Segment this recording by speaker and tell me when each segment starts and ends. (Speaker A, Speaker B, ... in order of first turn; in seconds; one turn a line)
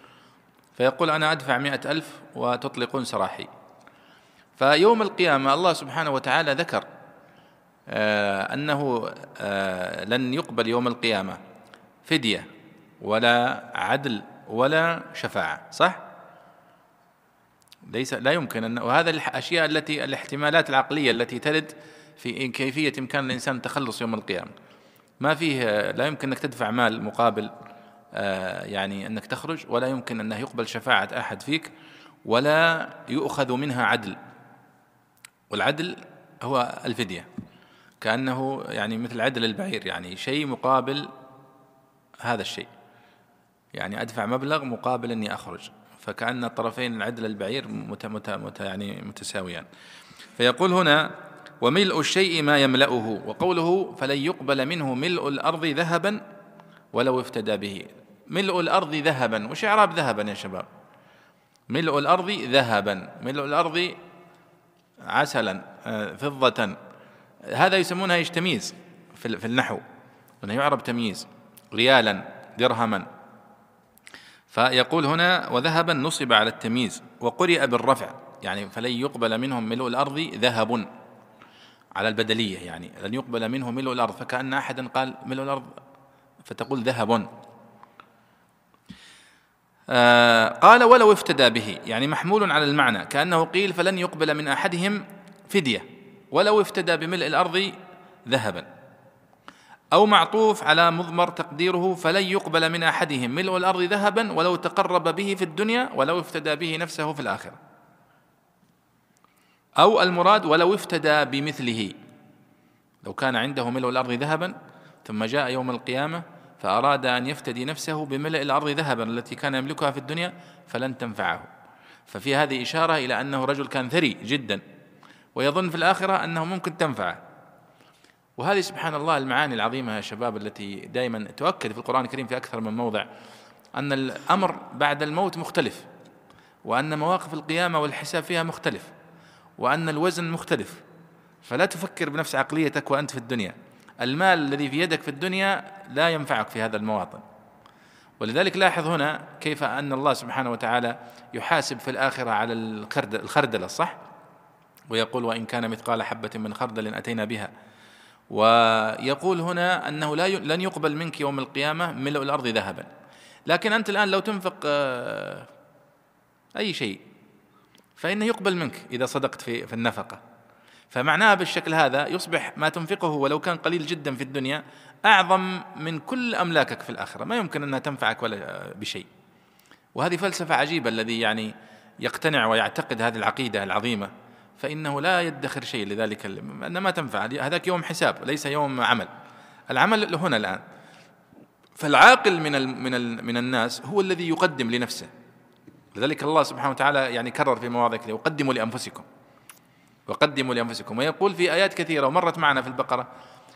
Speaker A: 0.7-3.5
Speaker A: 4.6-6.9
Speaker A: 7.9-11.4
Speaker A: 12.1-12.5
Speaker A: 13.0-16.0
Speaker A: 17.9-24.5
Speaker A: 25.2-27.5
Speaker A: 28.1-31.7
Speaker A: 32.3-34.2
Speaker A: 35.5-37.3
Speaker A: 38.0-41.1
Speaker A: 42.2-42.7
Speaker A: 43.7-49.7
Speaker A: 50.4-51.1
Speaker A: 51.6-56.2
Speaker A: 56.9-60.7
Speaker A: 61.7-64.0
Speaker A: 65.1-66.8
Speaker A: 67.5-69.8
Speaker A: 70.4-73.0
Speaker A: 74.5-80.9
Speaker A: 82.0-85.7
Speaker A: 86.4-87.3
Speaker A: 89.9-97.7
Speaker A: 98.3-98.7
Speaker A: 99.9-107.6
Speaker A: 109.8-112.0
Speaker A: 113.0-121.5
Speaker A: 122.1-124.6
Speaker A: 125.3-127.2
Speaker A: 128.4-133.1
Speaker A: 133.8-135.9
Speaker A: 136.6-138.9
Speaker A: 139.6-140.8
Speaker A: 141.4-147.2
Speaker A: 148.2-153.9
Speaker A: 154.9-157.5
Speaker A: 158.3-162.9
Speaker A: 163.5-165.5
Speaker A: 166.6-167.0
Speaker A: 168.0-170.2
Speaker A: 170.9-179.1
Speaker A: 179.9-181.5
Speaker A: 182.0-189.1
Speaker A: 189.7-190.6
Speaker A: 191.8-195.1
Speaker A: 195.9-199.1
Speaker A: 200.1-203.1